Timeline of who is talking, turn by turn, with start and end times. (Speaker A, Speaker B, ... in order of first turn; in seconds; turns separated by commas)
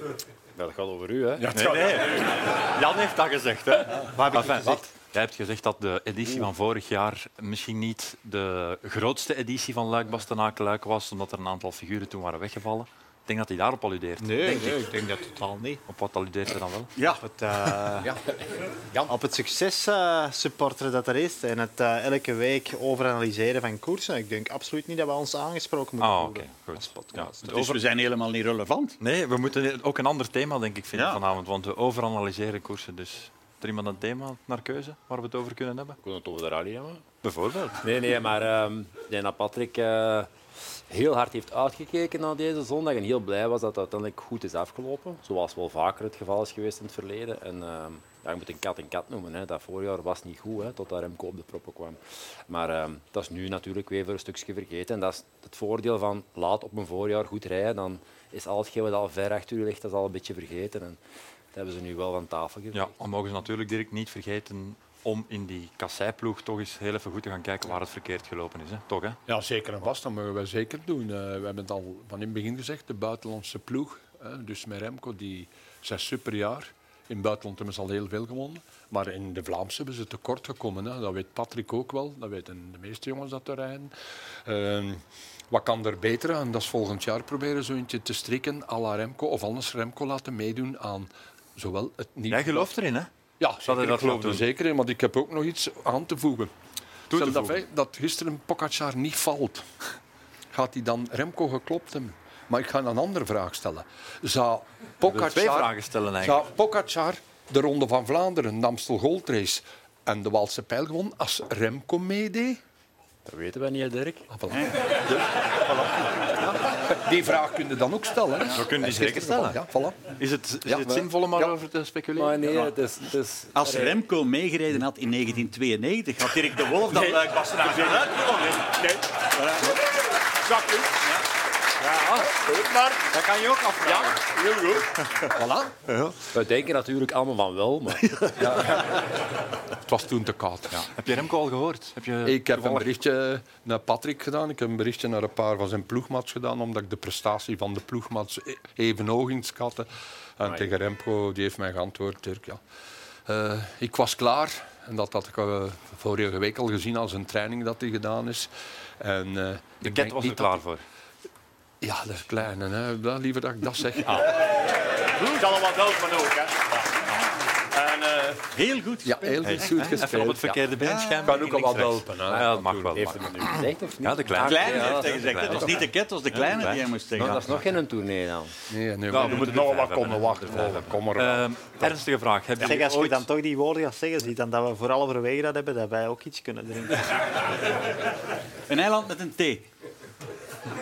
Speaker A: 0.6-1.5, Speaker B: 1.4-2.3, Speaker C: 1.5-14.7, Speaker D: 4.2-4.8, Speaker D: 14.2-15.8, Speaker C: 15.9-16.9, Speaker E: 17.0-17.2, Speaker D: 17.2-18.1, Speaker B: 18.0-19.1, Speaker D: 19.1-27.5, Speaker C: 26.0-27.8, Speaker E: 27.4-29.0, Speaker C: 29.0-36.0, Speaker E: 30.9-31.2, Speaker A: 36.0-37.0, Speaker C: 37.2-37.8, Speaker A: 37.8-40.3, Speaker A: 40.9-61.0, Speaker A: 61.5-62.9, Speaker C: 62.7-69.2, Speaker B: 69.3-83.9, Speaker B: 84.4-92.7, Speaker C: 92.3-93.1, Speaker B: 93.4-96.5, Speaker C: 93.7-94.4, Speaker B: 97.1-99.7, Speaker C: 97.1-97.6, Speaker B: 100.5-112.6, Speaker C: 105.0-106.5, Speaker A: 113.2-114.3, Speaker B: 114.3-114.8, Speaker E: 114.5-114.8, Speaker C: 115.1-115.9, Speaker B: 116.4-120.1, Speaker C: 118.5-119.6, Speaker C: 120.1-122.6, Speaker B: 120.7-121.1, Speaker A: 122.2-124.0, Speaker E: 123.5-128.2, Speaker B: 126.9-129.2, Speaker E: 129.3-129.8, Speaker B: 130.4-131.0, Speaker B: 132.4-133.1, Speaker C: 133.1-134.1, Speaker B: 133.8-135.8, Speaker A: 136.3-138.1, Speaker B: 138.4-138.9, Speaker B: 139.8-140.9, Speaker C: 140.7-142.9, Speaker B: 142.2-152.6, Speaker B: 153.3-160.6, Speaker C: 159.8-160.8, Speaker B: 161.8-167.1, Speaker B: 167.7-173.0, Speaker E: 168.5-170.0, Speaker C: 169.4-173.5, Speaker E: 170.8-171.4, Speaker A: 172.3-175.4, Speaker C: 174.0-177.4, Speaker E: 174.3-177.5, Speaker A: 177.2-178.5, Speaker B: 178.7-181.9, Speaker C: 179.1-183.3, Speaker D: 182.6-187.1, Speaker E: 188.7-189.7